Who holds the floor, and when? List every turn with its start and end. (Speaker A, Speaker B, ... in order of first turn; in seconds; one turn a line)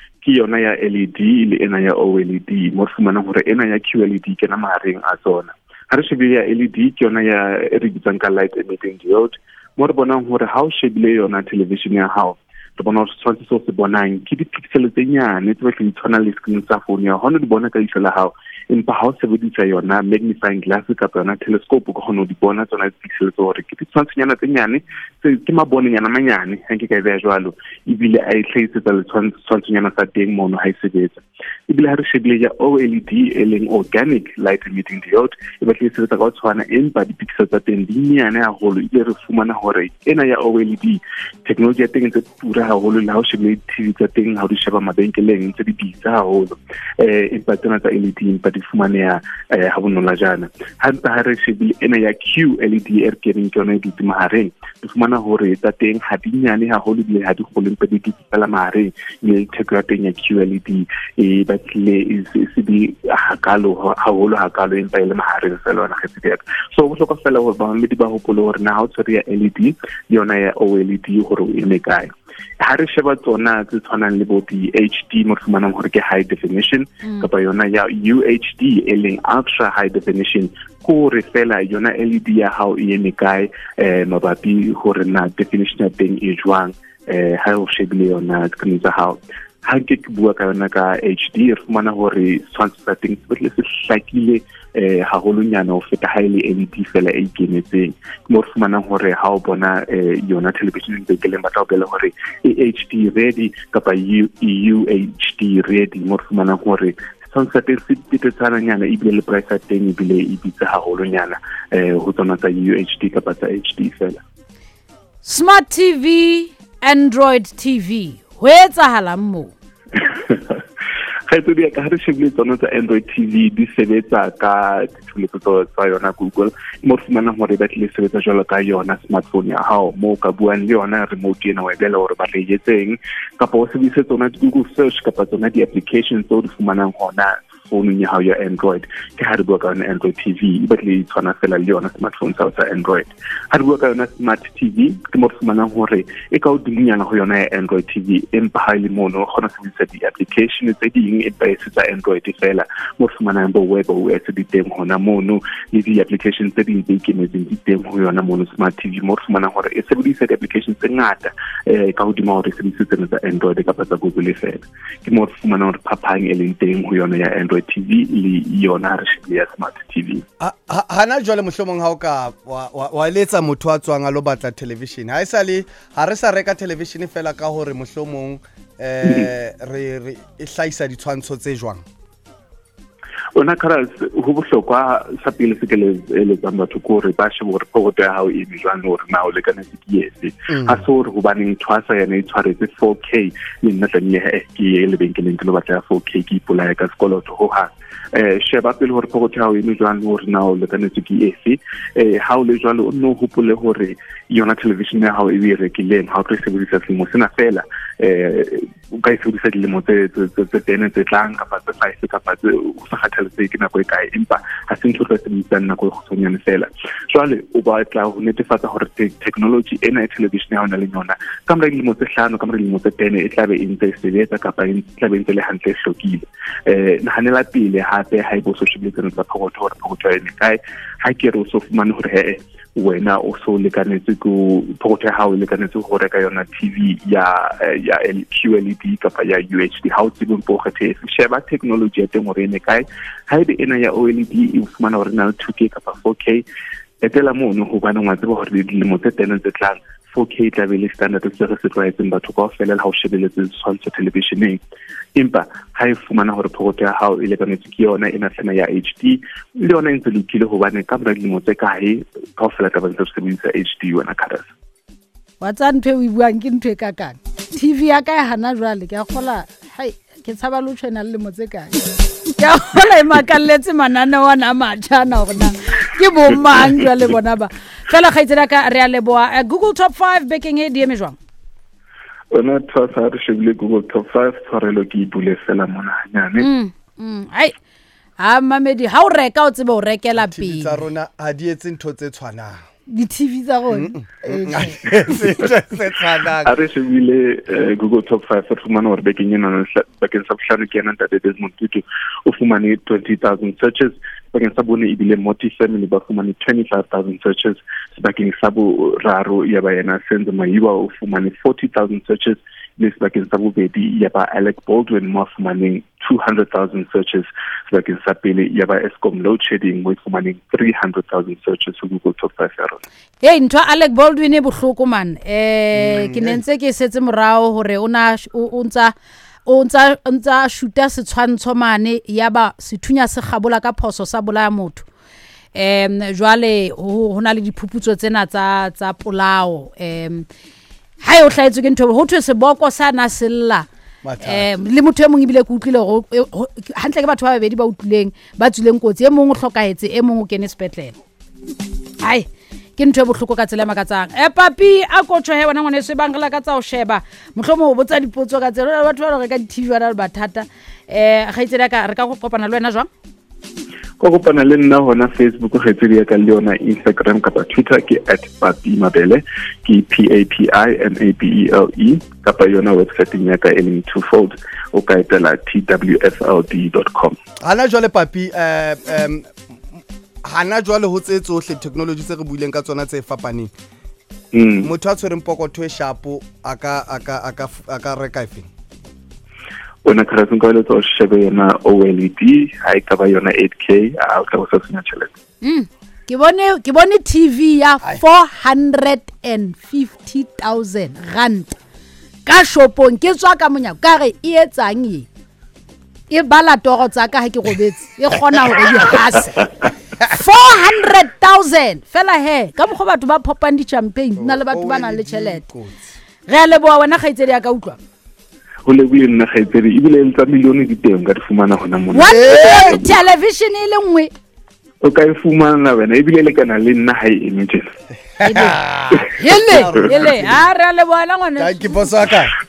Speaker A: 0.2-72.1
Speaker A: 72.6-114.2
Speaker B: 115.2-119.5
Speaker A: 120.0-120.6
Speaker A: 121.3-170.2
Speaker C: 170.4-181.8
Speaker A: 179.0-179.3
Speaker A: 183.3-246.4
Speaker C: 190.5-190.8
Speaker A: 247.0-254.6
Speaker A: 255.2-264.5
Speaker B: 265.4-281.2
Speaker A: 282.3-286.5
Speaker B: 286.4-287.5
Speaker B: 288.2-290.8
Speaker C: 290.2-292.6
Speaker B: 292.9-294.8
Speaker C: 293.7-296.5
Speaker A: 296.3-322.8
Speaker B: 323.2-328.9
Speaker C: 325.7-326.4
Speaker B: 329.4-334.9
Speaker B: 335.5-340.3
Speaker B: 341.0-343.6
Speaker C: 344.0-344.6
Speaker B: 344.2-350.9
Speaker B: 352.0-362.9
Speaker A: 364.0-377.1
Speaker C: 377.4-379.3
Speaker C: 380.2-383.5
Speaker A: 384.3-384.7
Speaker C: 384.6-388.5
Speaker A: 389.8-395.1
Speaker B: 395.4-401.5
Speaker B: 402.2-405.1
Speaker B: 406.1-415.4
Speaker C: 414.2-415.9
Speaker B: 416.3-417.8
Speaker A: 418.6-422.9
Speaker B: 421.9-424.1
Speaker C: 422.1-422.5
Speaker A: 424.8-427.7
Speaker B: 428.2-431.8
Speaker C: 428.3-430.5
Speaker A: 429.6-430.0
Speaker C: 431.4-432.3